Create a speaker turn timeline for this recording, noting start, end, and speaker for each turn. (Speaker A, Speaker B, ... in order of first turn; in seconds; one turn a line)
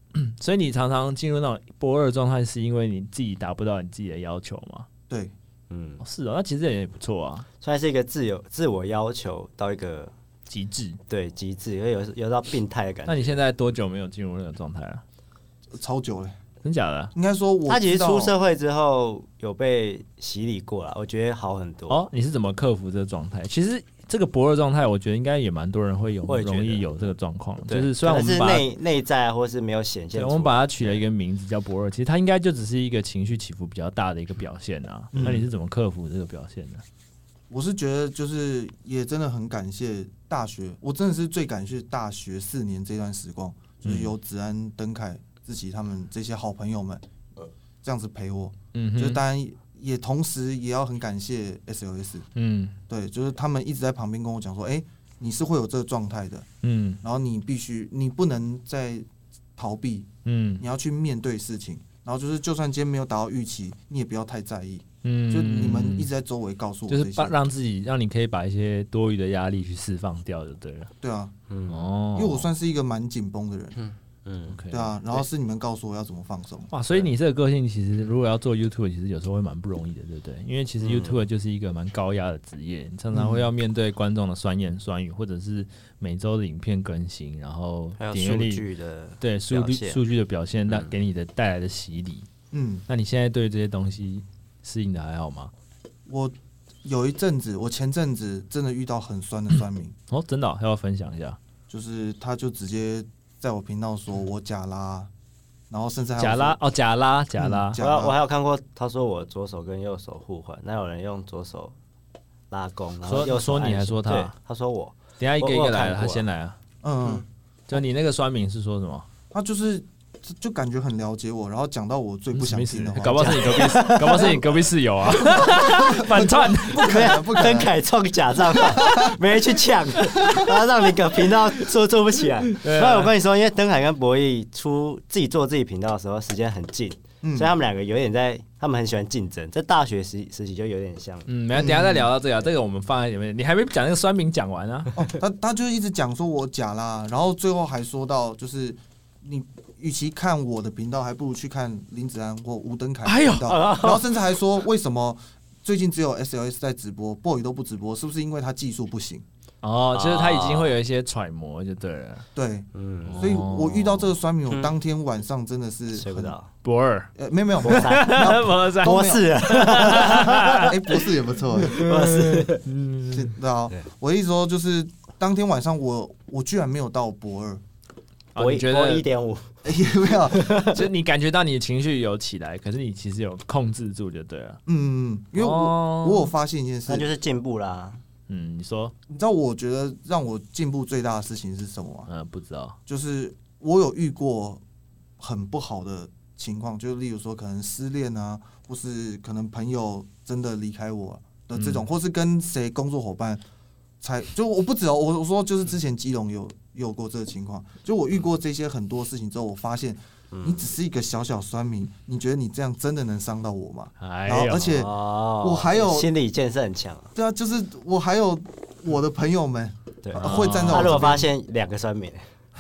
Speaker A: 0.1-4.9
Speaker B: 5.1-5.3
Speaker C: 5.7-6.0
Speaker A: 6.0-7.5
Speaker C: 7.6-10.1
Speaker A: 10.5-11.0
Speaker C: 11.1-13.4
Speaker A: 13.1-15.0
Speaker B: 15.7-16.4
Speaker A: 16.6-17.1
Speaker B: 17.1-18.3
Speaker C: 17.7-22.0
Speaker A: 21.9-28.7
Speaker C: 26.3-27.1
Speaker C: 27.7-31.0
Speaker A: 30.1-36.8
Speaker B: 35.1-35.5
Speaker B: 37.5-47.0
Speaker A: 43.9-44.1
Speaker B: 47.8-52.3
Speaker A: 48.7-49.2
Speaker A: 52.4-52.8
Speaker B: 52.9-56.5
Speaker A: 56.6-57.0
Speaker B: 57.0-60.1
Speaker A: 60.2-60.6
Speaker B: 60.6-67.4
Speaker A: 65.0-66.1
Speaker A: 66.9-70.9
Speaker B: 71.0-71.3
Speaker C: 71.5-71.8
Speaker A: 71.7-72.5
Speaker B: 72.1-73.8
Speaker C: 73.8-74.6
Speaker A: 74.5-75.0
Speaker B: 74.7-76.7
Speaker A: 76.7-88.7
Speaker C: 80.8-81.2
Speaker B: 83.1-83.5
Speaker C: 88.0-90.0
Speaker A: 89.2-92.3
Speaker B: 92.5-92.9
Speaker A: 92.9-95.5
Speaker B: 96.1-100.0
Speaker A: 100.1-101.4
Speaker B: 101.7-105.1
Speaker B: 105.7-106.6
Speaker A: 106.2-107.8
Speaker B: 107.4-108.2
Speaker C: 107.8-111.8
Speaker C: 112.5-116.2
Speaker A: 113.1-114.3
Speaker A: 115.2-116.6
Speaker B: 116.8-117.2
Speaker A: 117.7-119.1
Speaker B: 119.3-123.6
Speaker A: 122.3-127.2
Speaker C: 123.1-124.5
Speaker B: 125.2-127.7
Speaker C: 126.7-141.3
Speaker B: 128.6-129.2
Speaker B: 130.2-130.5
Speaker A: 132.6-133.1
Speaker B: 137.2-137.5
Speaker A: 141.3-145.0
Speaker B: 141.5-142.1
Speaker B: 145.0-159.2
Speaker A: 153.1-153.6
Speaker C: 153.5-154.1
Speaker A: 159.6-162.3
Speaker C: 159.9-160.8
Speaker B: 162.3-166.3
Speaker C: 162.7-163.3
Speaker A: 163.1-164.1
Speaker C: 165.9-166.5
Speaker A: 166.6-167.1
Speaker B: 167.2-169.3
Speaker C: 167.6-170.7
Speaker A: 167.6-171.0
Speaker B: 169.8-171.8
Speaker C: 171.7-172.7
Speaker A: 171.7-173.3
Speaker B: 173.1-177.6
Speaker A: 178.3-179.1
Speaker C: 178.4-179.6
Speaker B: 179.7-180.6
Speaker C: 180.2-180.9
Speaker A: 180.7-184.6
Speaker B: 184.7-187.1
Speaker A: 185.4-186.3
Speaker C: 186.9-188.0
Speaker A: 188.3-188.9
Speaker B: 189.1-192.1
Speaker A: 192.1-192.8
Speaker B: 192.9-194.6
Speaker B: 195.2-203.4
Speaker A: 201.6-201.8
Speaker B: 204.0-216.1
Speaker C: 210.3-210.7
Speaker A: 214.0-214.8
Speaker C: 214.7-217.1
Speaker B: 217.2-221.3
Speaker C: 220.0-222.3
Speaker A: 220.2-221.2